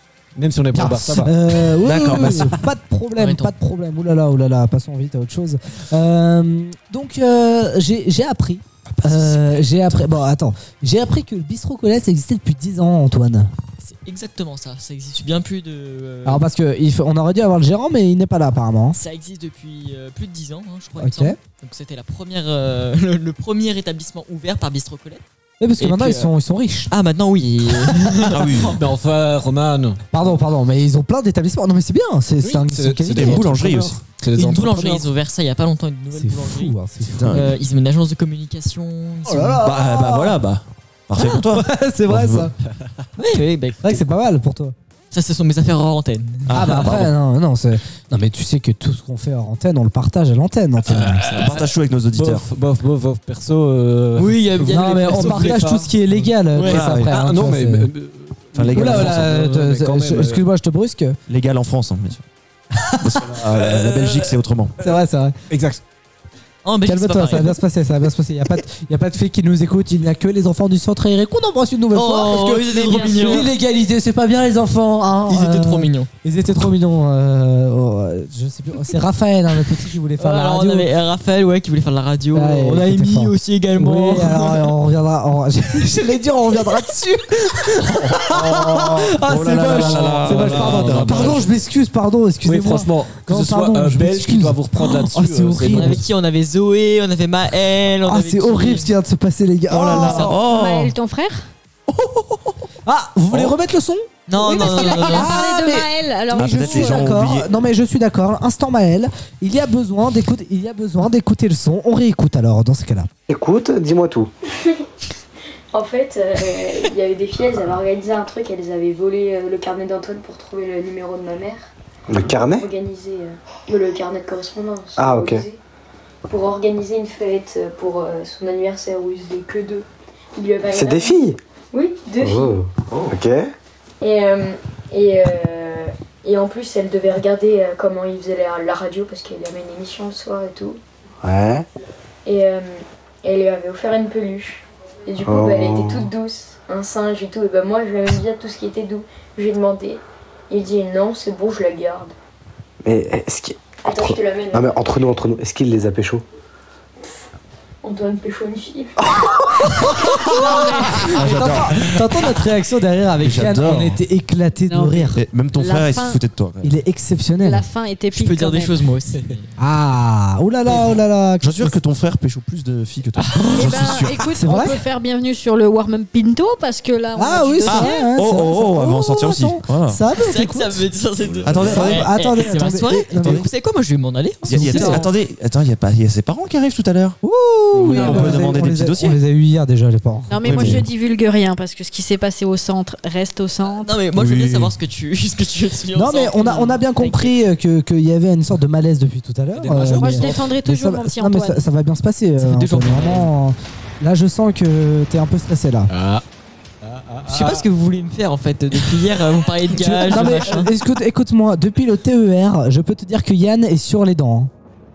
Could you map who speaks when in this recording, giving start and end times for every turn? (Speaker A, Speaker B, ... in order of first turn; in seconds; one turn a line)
Speaker A: 0.3-1.3
Speaker B: 0.7-13.5
Speaker C: 1.8-2.5
Speaker A: 2.0-2.5
Speaker D: 3.1-3.5
Speaker D: 13.8-16.4
Speaker B: 16.2-19.0
Speaker D: 18.9-25.2
Speaker B: 21.0-21.4
Speaker B: 25.6-26.9
Speaker D: 25.8-26.3
Speaker D: 26.9-28.7
Speaker C: 28.3-28.7
Speaker A: 28.7-30.0
Speaker B: 30.1-33.4
Speaker A: 32.4-35.1
Speaker C: 33.1-34.0
Speaker D: 34.4-36.7
Speaker B: 36.1-37.4
Speaker C: 37.1-37.5
Speaker D: 37.3-39.6
Speaker B: 39.2-40.4
Speaker C: 39.6-42.5
Speaker B: 41.2-42.5
Speaker D: 43.2-44.0
Speaker B: 43.8-44.7
Speaker D: 45.1-46.8
Speaker C: 46.5-47.1
Speaker B: 46.5-51.3
Speaker A: 50.9-60.4
Speaker C: 51.4-52.5
Speaker D: 54.2-55.8
Speaker B: 54.6-57.9
Speaker D: 56.5-56.8
Speaker C: 56.6-57.1
Speaker C: 58.5-59.3
Speaker B: 58.7-61.2
Speaker C: 61.3-62.2
Speaker C: 63.0-64.7
Speaker A: 63.5-64.3
Speaker B: 64.8-65.3
Speaker A: 65.5-65.8
Speaker D: 66.6-67.6
Speaker B: 66.8-80.9
Speaker D: 71.9-73.5
Speaker E: 72.8-73.5
Speaker D: 75.3-76.1
Speaker D: 80.2-84.6
Speaker B: 82.3-96.0
Speaker A: 88.1-91.5
Speaker C: 89.2-91.5
Speaker A: 92.4-96.0
Speaker D: 95.7-98.9
Speaker B: 98.0-100.4
Speaker C: 99.7-100.9
Speaker E: 99.9-101.5
Speaker C: 101.9-102.5
Speaker B: 102.8-113.1
Speaker D: 104.3-105.3
Speaker E: 104.4-107.2
Speaker C: 106.3-107.5
Speaker F: 113.3-114.3
Speaker G: 115.7-121.7
Speaker F: 122.1-122.7
Speaker G: 122.3-125.6
Speaker F: 125.0-125.4
Speaker G: 126.3-132.6
Speaker F: 130.7-131.4
Speaker F: 132.2-133.5
Speaker G: 134.0-140.8
Speaker F: 141.2-141.6
Speaker G: 142.2-152.1
Speaker F: 145.2-146.1
Speaker F: 152.8-156.2
Speaker G: 153.8-154.8
Speaker G: 157.8-158.9
Speaker B: 160.0-165.2
Speaker E: 160.4-161.1
Speaker C: 161.1-162.3
Speaker C: 163.2-164.0
Speaker E: 164.7-166.2
Speaker C: 165.1-166.8
Speaker B: 166.6-167.6
Speaker E: 167.4-168.8
Speaker D: 168.1-169.5
Speaker B: 169.6-171.8
Speaker A: 170.7-171.0
Speaker C: 171.4-174.2
Speaker E: 173.3-178.1
Speaker B: 174.3-174.8
Speaker B: 177.1-180.8
Speaker C: 177.6-180.0
Speaker D: 180.2-185.1
Speaker C: 181.4-182.1
Speaker B: 181.5-183.4
Speaker C: 183.2-183.5
Speaker B: 184.4-185.1
Speaker C: 184.4-187.2
Speaker B: 187.2-190.8
Speaker C: 187.8-189.2
Speaker A: 187.8-188.3
Speaker D: 187.9-188.3
Speaker E: 190.3-193.9
Speaker C: 190.4-190.8
Speaker D: 193.6-196.8
Speaker C: 194.1-194.7
Speaker B: 195.9-205.9
Speaker E: 197.0-197.3
Speaker A: 199.5-200.4
Speaker E: 199.9-201.6
Speaker D: 202.4-203.3
Speaker A: 205.9-206.2
Speaker A: 206.8-207.6
Speaker D: 207.3-210.7
Speaker B: 210.0-214.5